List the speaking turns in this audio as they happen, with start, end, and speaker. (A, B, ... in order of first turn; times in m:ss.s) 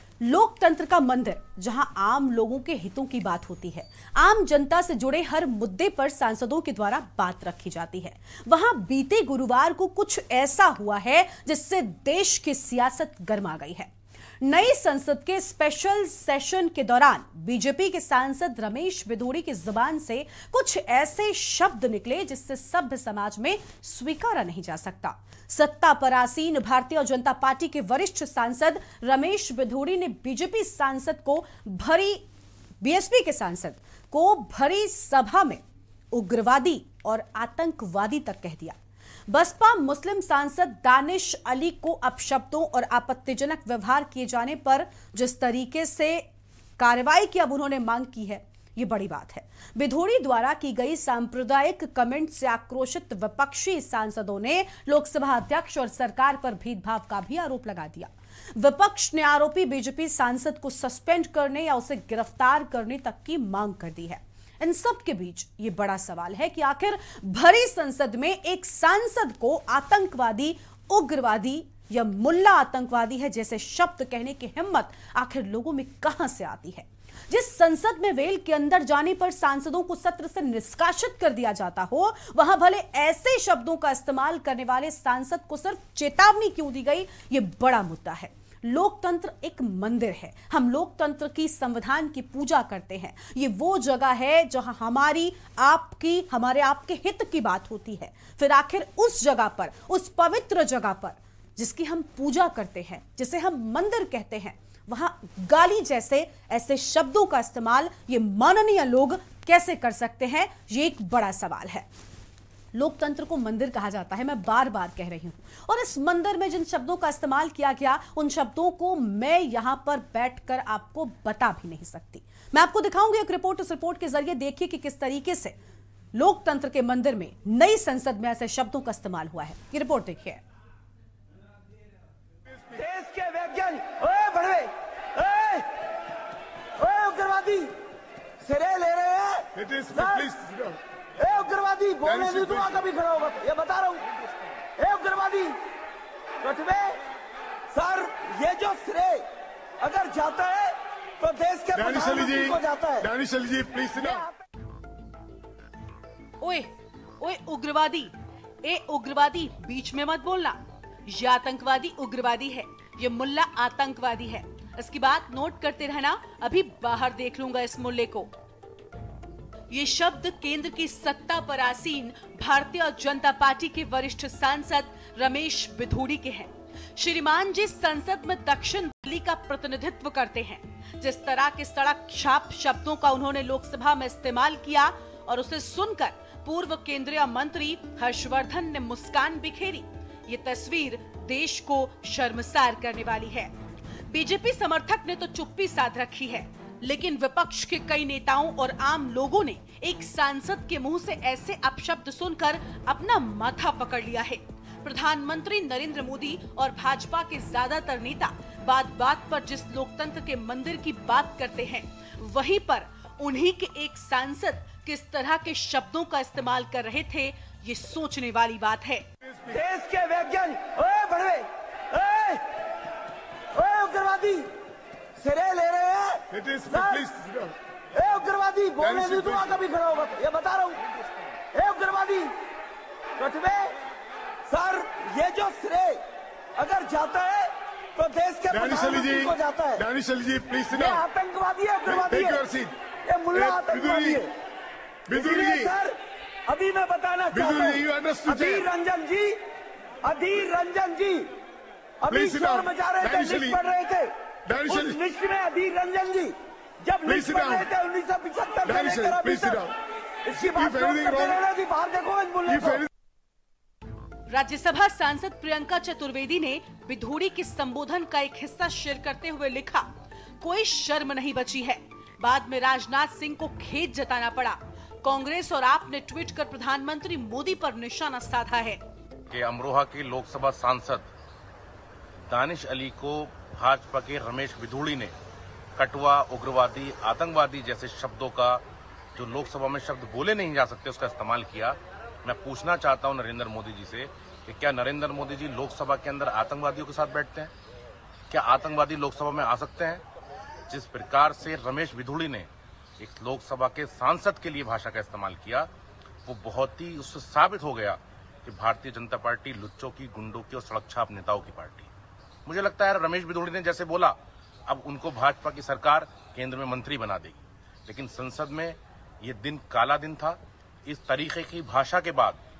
0:00.2-0:13.9 A
0:14.4-0:32.2 A
0:32.8-0:35.6 A
0:36.1-0:38.8 A
0:39.3-0:46.2 A
0:46.8-1:51.9 A
1:52.7-2:05.6 A
2:06.1-2:10.4 A
2:12.7-2:15.7 B
2:16.8-2:17.7 B
2:18.4-2:20.4 B
2:19.6-2:20.8 C
2:21.2-2:24.1 B
2:22.0-2:22.9 C
2:24.8-2:25.6 B
2:26.4-2:27.0 B
2:27.7-2:29.2 B
2:29.8-2:33.1 B
2:31.7-2:34.2 C
2:34.0-2:34.3 B
2:36.4-2:36.7 A
2:37.2-2:38.1 A
2:38.6-2:48.3 A
2:49.7-3:13.5 A
3:14.1-3:39.0 A
3:39.3-3:39.6 C
3:39.5-3:42.4 B
3:43.6-3:44.5 B
3:45.2-3:47.1 B
3:46.3-3:47.6 C
3:47.9-3:50.8 B
3:48.8-3:49.6 C
3:51.5-3:52.3 B
3:53.2-3:53.7 B
3:54.5-3:56.0 B
3:56.6-3:59.8 B
3:58.5-4:01.0 C
4:00.7-4:02.4 B
4:01.9-4:02.7 C
4:03.1-4:04.3 B
4:03.3-4:04.2 C
4:05.1-4:05.8 C
4:05.1-4:06.0 B
4:06.5-4:09.4 B
4:07.3-4:08.7 C
4:10.0-4:11.3 B
4:12.0-4:14.1 B
4:12.1-4:13.6 C
4:14.5-4:15.0 C
4:14.7-4:19.7 B
4:17.0-4:17.7 C
4:18.6-4:19.7 C
4:20.3-4:22.8 B
4:20.4-4:21.4 C
4:22.5-4:22.9 C
4:24.3-4:29.9 A
4:30.4-4:38.8 A
4:39.3-4:41.1 D
4:42.3-4:45.1 D
4:45.8-4:48.6 D
4:49.2-4:57.5 D
4:58.3-5:00.0 D
5:00.7-5:02.5 D
5:03.0-5:05.7 D
5:06.2-5:11.9 D
5:12.5-5:22.4 D